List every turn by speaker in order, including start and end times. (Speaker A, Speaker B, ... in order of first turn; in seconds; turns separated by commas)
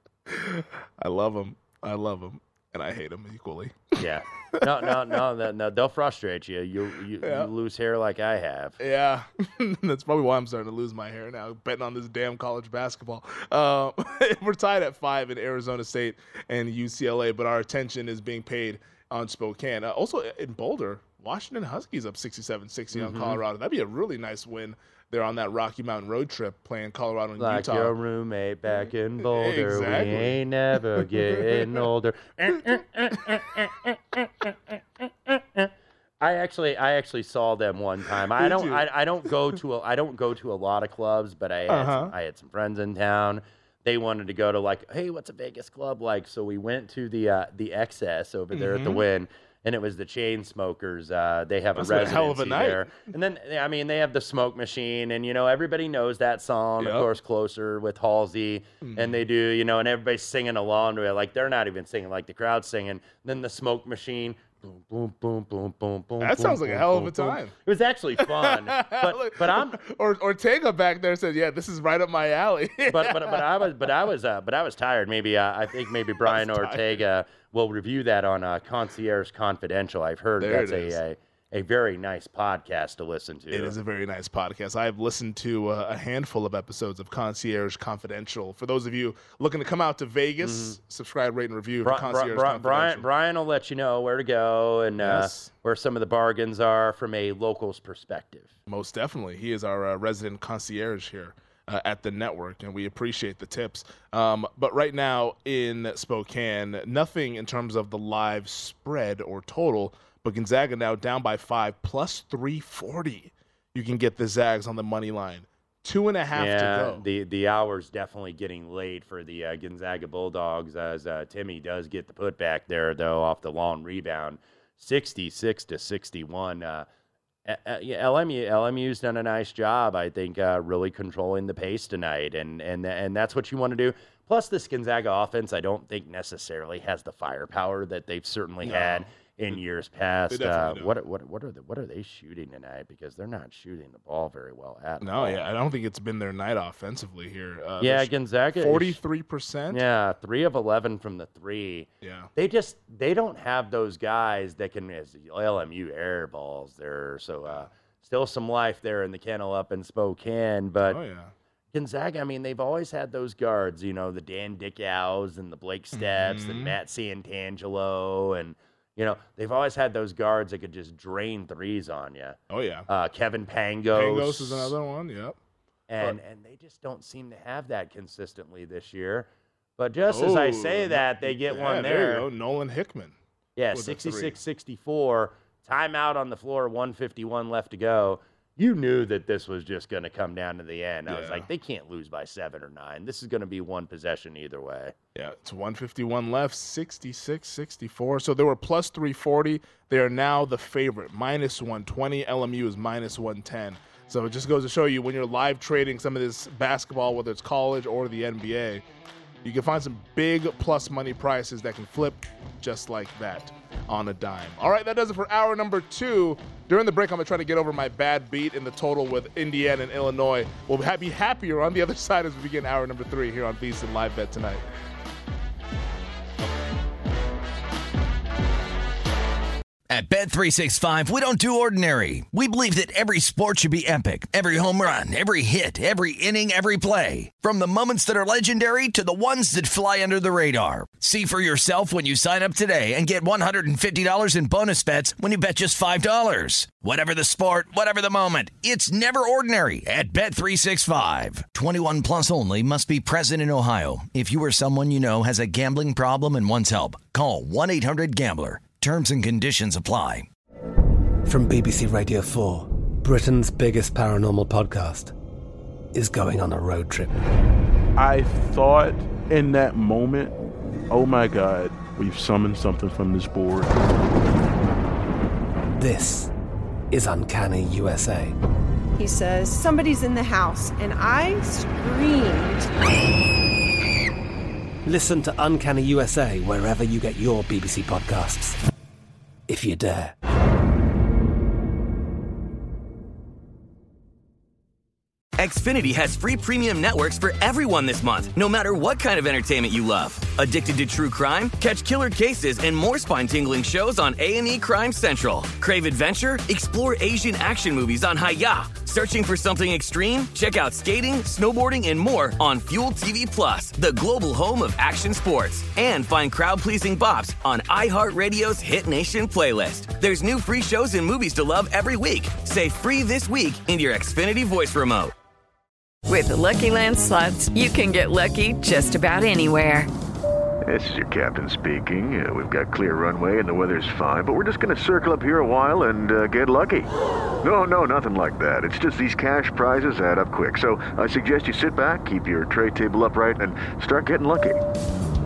Speaker A: 0.3-4.0, Speaker B: 4.0-8.8, Speaker A: 4.6-5.2, Speaker A: 7.2-7.5, Speaker A: 8.8-27.9, Speaker B: 22.9-23.4, Speaker B: 27.4-69.8, Speaker A: 29.2-30.4, Speaker A: 31.0-31.9, Speaker A: 32.5-32.8, Speaker A: 38.3-38.9, Speaker A: 41.7-42.1, Speaker A: 48.5-49.0, Speaker A: 51.8-52.8, Speaker A: 56.8-57.1, Speaker A: 58.8-59.2, Speaker A: 66.2-67.5, Speaker A: 68.2-73.6, Speaker B: 72.9-83.8, Speaker A: 76.2-77.0, Speaker A: 80.4-81.0, Speaker A: 83.5-93.1, Speaker B: 90.4-90.8, Speaker B: 91.8-98.5, Speaker A: 95.0-95.5, Speaker A: 98.7-117.0, Speaker B: 116.3-126.9, Speaker B: 127.5-145.4, Speaker A: 138.6-139.6, Speaker A: 140.3-140.9, Speaker A: 145.0-149.8, Speaker B: 147.8-149.0, Speaker B: 149.7-161.0, Speaker A: 152.0-152.3, Speaker A: 160.8-161.3, Speaker B: 161.7-172.4, Speaker A: 165.9-166.8, Speaker A: 172.5-172.9, Speaker B: 172.9-174.7, Speaker A: 173.9-175.4, Speaker B: 175.9-179.3, Speaker B: 179.8-182.3, Speaker A: 180.1-183.2, Speaker B: 183.6-194.9, Speaker A: 183.7-184.4, Speaker A: 191.1-191.5, Speaker A: 195.2-208.8, Speaker A: 209.4-224.6, Speaker C: 229.9-260.3, Speaker D: 261.3-265.1, Speaker D: 265.9-267.2, Speaker E: 268.0-270.4, Speaker E: 270.9-273.7, Speaker D: 275.8-276.3, Speaker D: 276.9-278.4, Speaker F: 279.0-282.7, Speaker D: 284.9-288.6, Speaker D: 289.5-290.2, Speaker G: 295.4-325.1, Speaker H: 326.1-329.9, Speaker I: 330.7-336.9, Speaker I: 337.4-344.6